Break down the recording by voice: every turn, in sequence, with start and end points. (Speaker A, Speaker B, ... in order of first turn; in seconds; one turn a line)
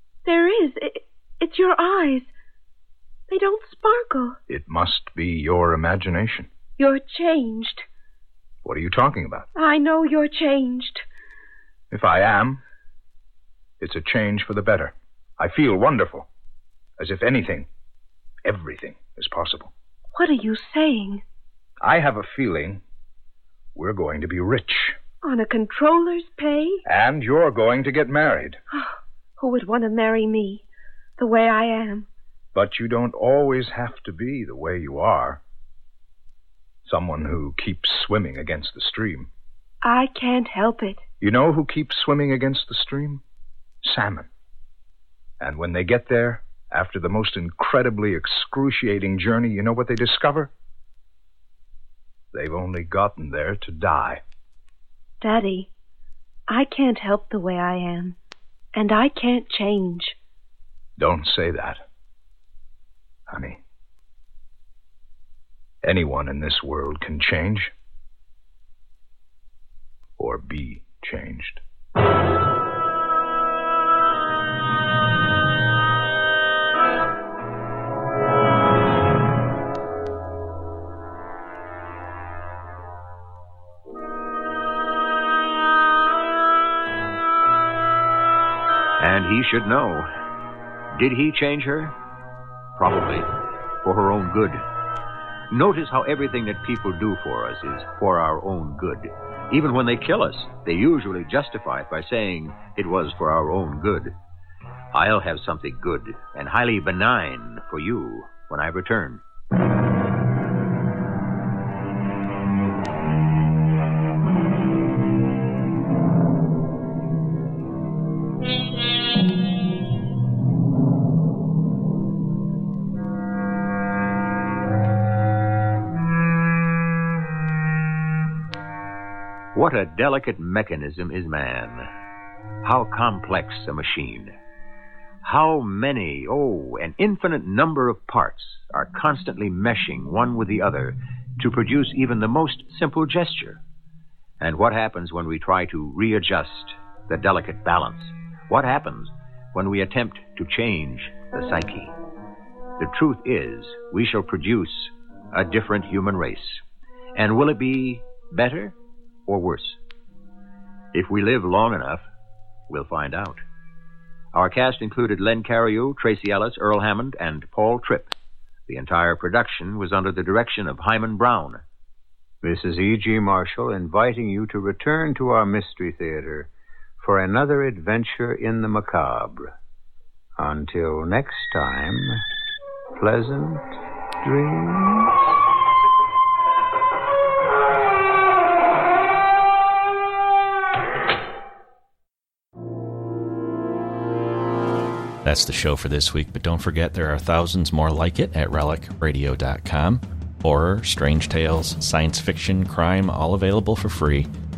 Speaker A: 0.2-2.3
Speaker A: 3.3-4.4
Speaker B: 4.5-6.5
Speaker A: 6.8-7.8
Speaker B: 8.6-9.5
Speaker A: 9.6-11.0
Speaker B: 11.9-12.6
Speaker B: 13.8-16.3
Speaker B: 17.0-17.7
Speaker B: 18.4-19.7
Speaker A: 20.1-21.2
Speaker B: 21.8-22.8
Speaker B: 23.7-25.0
Speaker A: 25.2-26.8
Speaker B: 26.9-28.6
Speaker A: 28.7-30.6
Speaker A: 31.2-32.1
Speaker B: 32.5-35.4
Speaker B: 36.8-39.3
Speaker A: 39.8-41.0
Speaker B: 41.2-43.2
Speaker B: 43.8-44.3
Speaker B: 45.4-50.5
Speaker B: 52.3-54.2
Speaker A: 55.2-55.7
Speaker A: 56.5-58.2
Speaker A: 58.7-60.2
Speaker B: 61.0-61.8
Speaker B: 63.3-63.6
Speaker B: 65.8-67.7
Speaker B: 70.2-71.6
Speaker C: 89.0-90.1
Speaker C: 90.9-92.0
Speaker C: 92.8-93.3
Speaker C: 93.8-94.6
Speaker C: 95.5-104.2
Speaker C: 104.9-109.2
Speaker C: 129.5-131.9
Speaker C: 132.6-134.3
Speaker C: 135.2-143.6
Speaker C: 144.4-151.9
Speaker C: 152.8-156.6
Speaker C: 157.1-158.8
Speaker C: 159.3-159.8
Speaker C: 160.9-162.1
Speaker C: 162.7-163.4
Speaker C: 164.3-168.1
Speaker C: 168.7-171.6
Speaker D: 172.4-179.5
Speaker D: 180.4-182.2
Speaker D: 182.9-183.7
Speaker D: 184.2-185.1
Speaker E: 195.2-204.3